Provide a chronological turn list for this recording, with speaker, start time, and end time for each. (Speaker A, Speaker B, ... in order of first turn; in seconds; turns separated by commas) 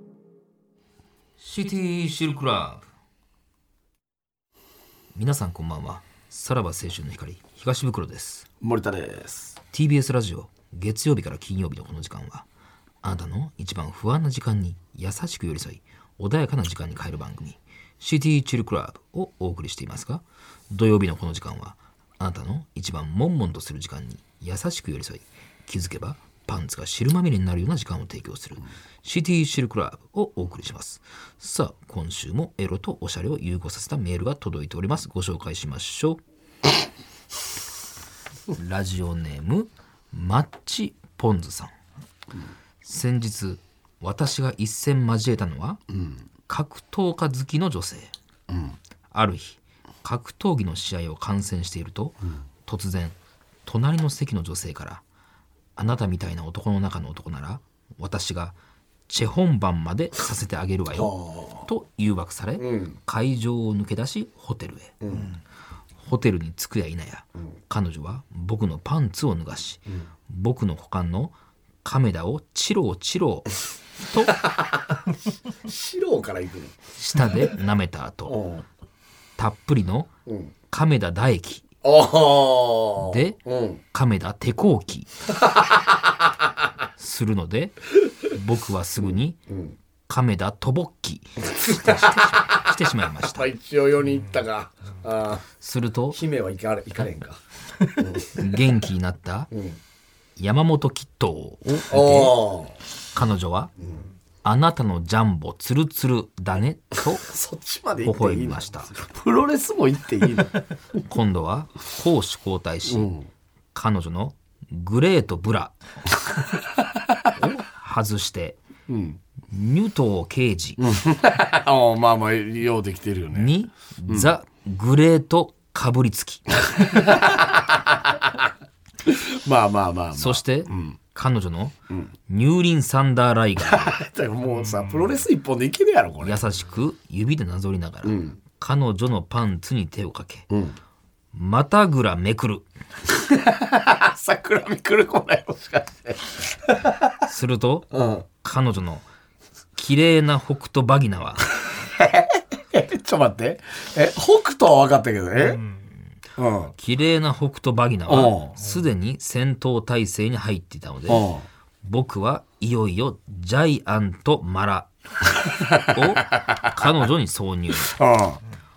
Speaker A: 1.4-2.8, Speaker A: 5.1-8.4, Speaker B: 8.6-9.5, Speaker A: 9.7-12.4, Speaker A: 13.0-36.2, Speaker A: 38.5-41.7, Speaker A: 42.8-45.8, Speaker A: 46.5-48.1, Speaker A: 49.1-53.1, Speaker A: 53.6-55.0, Speaker A: 55.8-58.5, Speaker A: 59.1-64.9, Speaker B: 60.9-61.6, Speaker B: 62.6-62.9, Speaker B: 65.0-65.3, Speaker A: 66.0-71.3, Speaker A: 71.8-73.5, Speaker A: 74.1-74.3, Speaker B: 74.4-74.8, Speaker B: 75.6-76.8, Speaker A: 77.0-78.4, Speaker B: 78.3-78.6, Speaker A: 79.4-80.1, Speaker A: 80.7-81.6, Speaker B: 81.8-83.8, Speaker A: 83.0-83.4, Speaker A: 83.9-85.1, Speaker B: 85.3-85.8, Speaker A: 87.0-89.4, Speaker A: 90.1-93.5, Speaker B: 91.6-92.7, Speaker B: 93.2-95.4, Speaker A: 95.6-96.2, Speaker B: 96.1-97.4, Speaker B: 98.0-98.4, Speaker A: 98.3-99.5, Speaker B: 99.5-99.8, Speaker A: 100.4-102.4, Speaker B: 101.9-102.7, Speaker A: 103.1-103.7, Speaker A: 104.4-107.3, Speaker B: 107.3-110.6, Speaker A: 108.0-108.9, Speaker A: 111.1-113.1, Speaker B: 112.9-113.2, Speaker A: 113.7-115.7, Speaker A: 117.4-118.6, Speaker B: 118.9-119.2, Speaker A: 119.5-120.8, Speaker B: 120.8-123.5, Speaker A: 123.3-126.6, Speaker B: 126.8-128.4, Speaker B: 129.0-130.9, Speaker A: 130.2-131.7, Speaker A: 132.3-134.0, Speaker B: 133.6-136.4, Speaker A: 136.2-140.4, Speaker B: 138.0-138.3, Speaker A: 141.3-142.6, Speaker B: 143.3-147.1, Speaker A: 147.2-149.0, Speaker B: 147.9-148.2, Speaker A: 149.8-151.5, Speaker B: 151.8-155.6, Speaker B: 156.4-156.7, Speaker A: 156.8-161.3, Speaker B: 158.1-158.5, Speaker B: 161.1-161.4, Speaker A: 161.8-164.9, Speaker B: 165.4-166.7, Speaker A: 165.9-167.9, Speaker B: 167.8-168.4